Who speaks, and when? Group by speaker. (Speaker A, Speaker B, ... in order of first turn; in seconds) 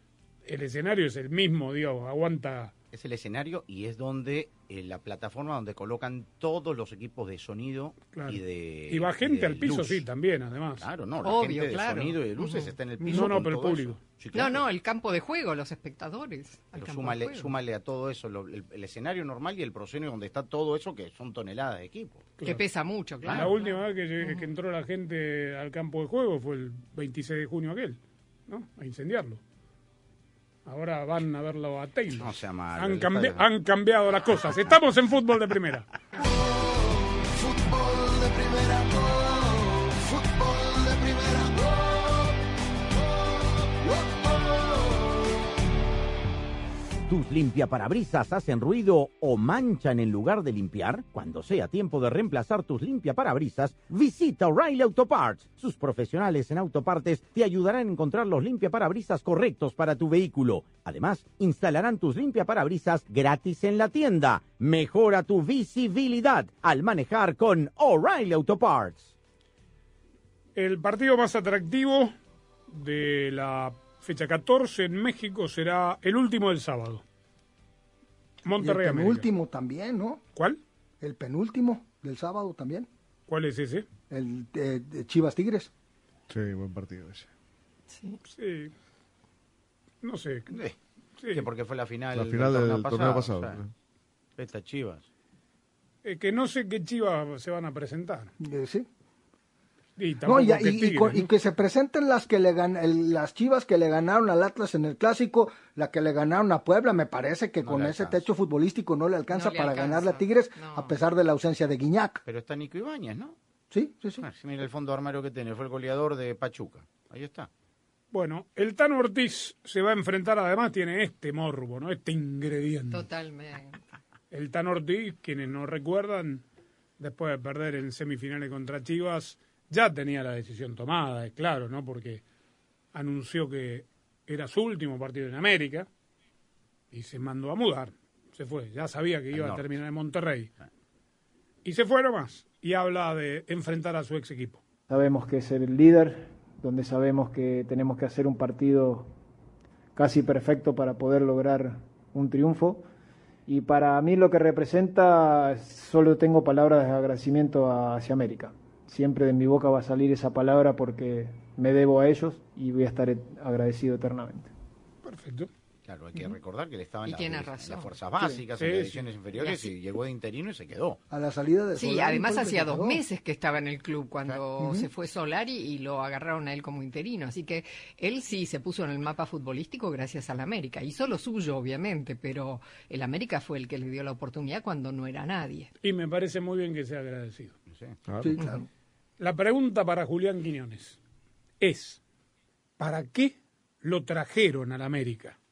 Speaker A: 0.4-2.7, 8.1-10.8, 13.1-14.0, 23.3-29.4, 30.6-35.9, 70.5-72.1, 72.7-77.0, 78.4-79.3, 80.3-80.6, 83.3-83.8, 88.3-88.7, 90.0-90.5, 91.2-91.5, 96.0-98.3, 100.0-101.3, 118.1-123.0, 124.3-126.4, 127.0-132.2, 132.9-135.9, 136.9-140.5, 141.6-144.6, 165.0-165.5, 168.6-169.1, 185.8-187.5, 189.2-191.0, 191.6-192.0, 192.8-195.3
Speaker B: 2.9-10.0, 10.8-14.6, 16.7-22.3, 23.2-23.5, 32.2-33.4, 90.5-90.8, 91.3-93.6, 94.4-95.0, 107.6-108.2, 112.2-113.3, 114.2-117.5, 139.3-139.7, 165.8-171.0, 187.7-188.0
Speaker C: 11.2-12.7, 14.3-17.5, 22.4-24.4, 87.9-88.2, 109.3-111.0, 122.9-123.8, 167.1-167.9, 169.3-169.7, 171.8-185.7
Speaker D: 13.0-13.3, 78.6-80.2, 81.0-82.9, 84.1-85.7, 98.4-98.9, 100.2-112.2, 113.7-114.2, 171.1-173.0, 174.6-174.9, 188.2-188.7
Speaker E: 36.1-42.4, 43.0-45.4
Speaker F: 47.1-69.1
Speaker G: 86.3-87.3, 92.1-93.7, 188.1-188.3
Speaker H: 144.9-149.1, 149.9-152.8, 153.5-164.5